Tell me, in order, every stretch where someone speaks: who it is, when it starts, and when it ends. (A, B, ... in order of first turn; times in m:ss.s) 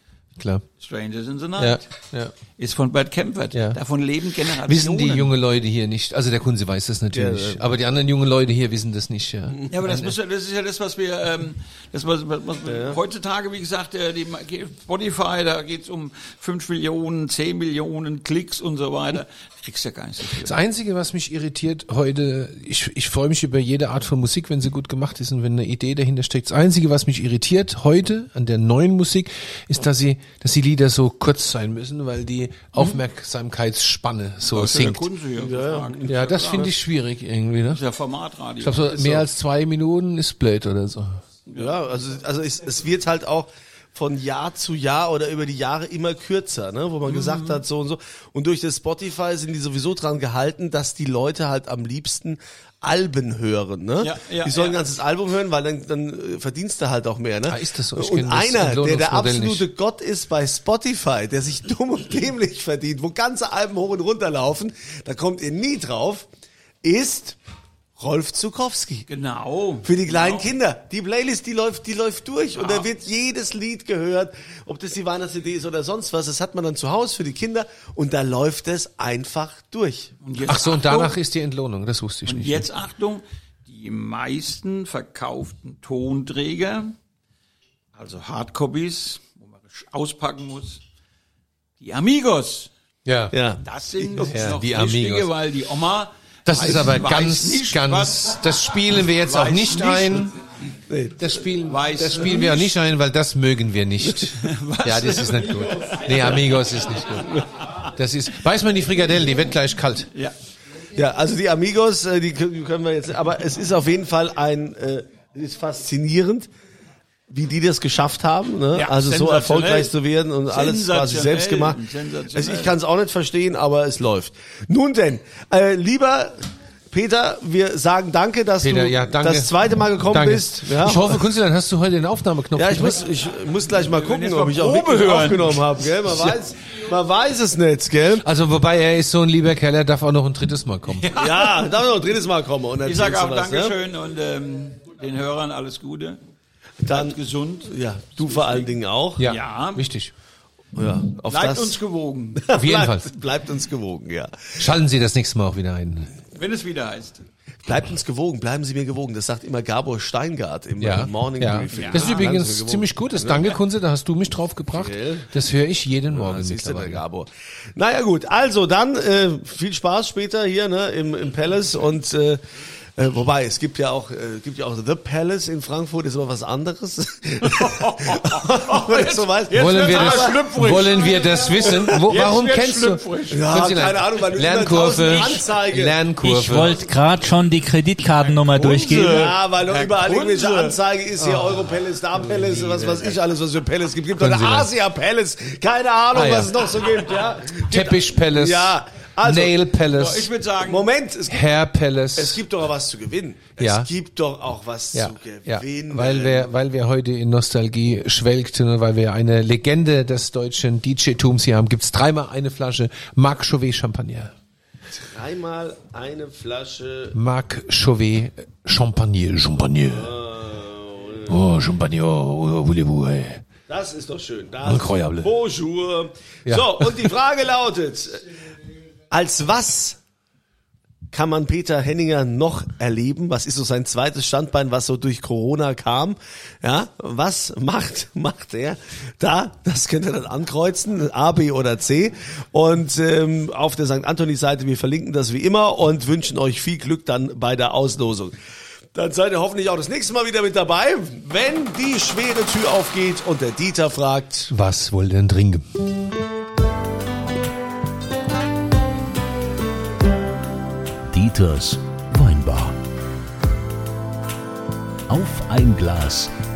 0:00.4-0:00.6 A
0:00.8-0:01.9 B
0:01.6-0:02.3 A
0:02.6-0:05.4 B
0:03.5-0:03.8 A
0:04.4-0:10.2 A
0:07.1-0:07.6 C
0:09.7-0:20.6 B
0:12.7-0:13.0 C
0:20.3-0:35.1 A
0:34.5-0:36.7 B
0:35.4-0:36.7 C
0:36.1-0:37.8 A
0:37.7-0:39.3 B
0:38.6-0:41.2 A
0:41.5-1:06.3 C
0:47.1-0:47.6 B
0:54.0-0:54.8 B
0:57.5-0:59.7 A
1:06.8-1:07.4 C
1:08.0-1:09.1 C
1:09.1-1:10.5 B
1:09.8-1:20.1 C
1:12.6-1:12.9 B
1:20.2-1:21.2 B
1:20.4-1:22.7 A
1:22.3-1:27.0 B
1:28.0-1:30.8 B
1:31.8-1:32.7 B
1:33.1-1:33.4 A
1:33.3-1:34.5 C
1:33.6-1:40.3 B
1:34.3-1:35.3 A
1:36.5-1:40.3 A
1:40.9-1:41.3 C
1:41.2-1:50.1 A
1:41.7-1:42.8 B
1:44.1-1:47.9 B
1:50.9-1:56.5 C
1:57.3-2:11.2 C
1:58.7-1:59.9 B
2:00.5-2:02.8 B
2:08.6-2:13.1 A
2:12.6-2:18.2 C
2:13.8-2:16.4 B
2:18.2-2:21.1 A
2:20.9-2:21.8 B
2:21.1-2:23.8 C
2:22.8-2:26.2 B
2:26.8-2:29.2 C
2:26.9-2:29.8 B
2:29.2-2:30.1 A
2:30.8-2:31.8 C
2:31.3-2:32.5 B
2:32.4-2:34.6 C
2:32.5-2:33.1 A
2:34.6-2:36.2 A
2:36.3-2:37.2 B
2:37.6-2:43.5 C
2:40.8-2:47.0 A
2:41.7-2:42.3 B
2:44.8-2:45.3 C
2:46.1-3:00.5 C
2:57.4-3:03.8 B
2:59.5-3:06.8 A
3:03.3-3:06.0 C
3:05.0-3:05.4 B
3:06.2-3:09.4 D
3:08.2-3:10.8 B
3:08.7-3:19.6 C
3:11.2-3:13.2 A
3:14.2-3:14.7 A
3:16.1-3:16.5 A
3:17.6-3:20.3 A
3:19.9-3:20.9 B
3:20.6-3:21.5 C
3:21.3-3:22.4 A
3:22.2-3:26.4 C
3:23.6-3:23.9 A
3:24.9-3:34.3 A
3:35.0-3:37.2 C
3:37.1-3:40.2 A
3:39.9-3:41.4 C
3:41.3-3:43.4 A
3:43.7-3:48.3 C
3:44.6-3:45.4 A
3:46.5-3:47.1 A
3:49.1-3:50.0 C
3:51.1-4:08.4 C
4:08.9-4:14.5 C
4:14.5-4:15.9 A
4:21.1-4:22.8 E
4:25.1-4:26.3 E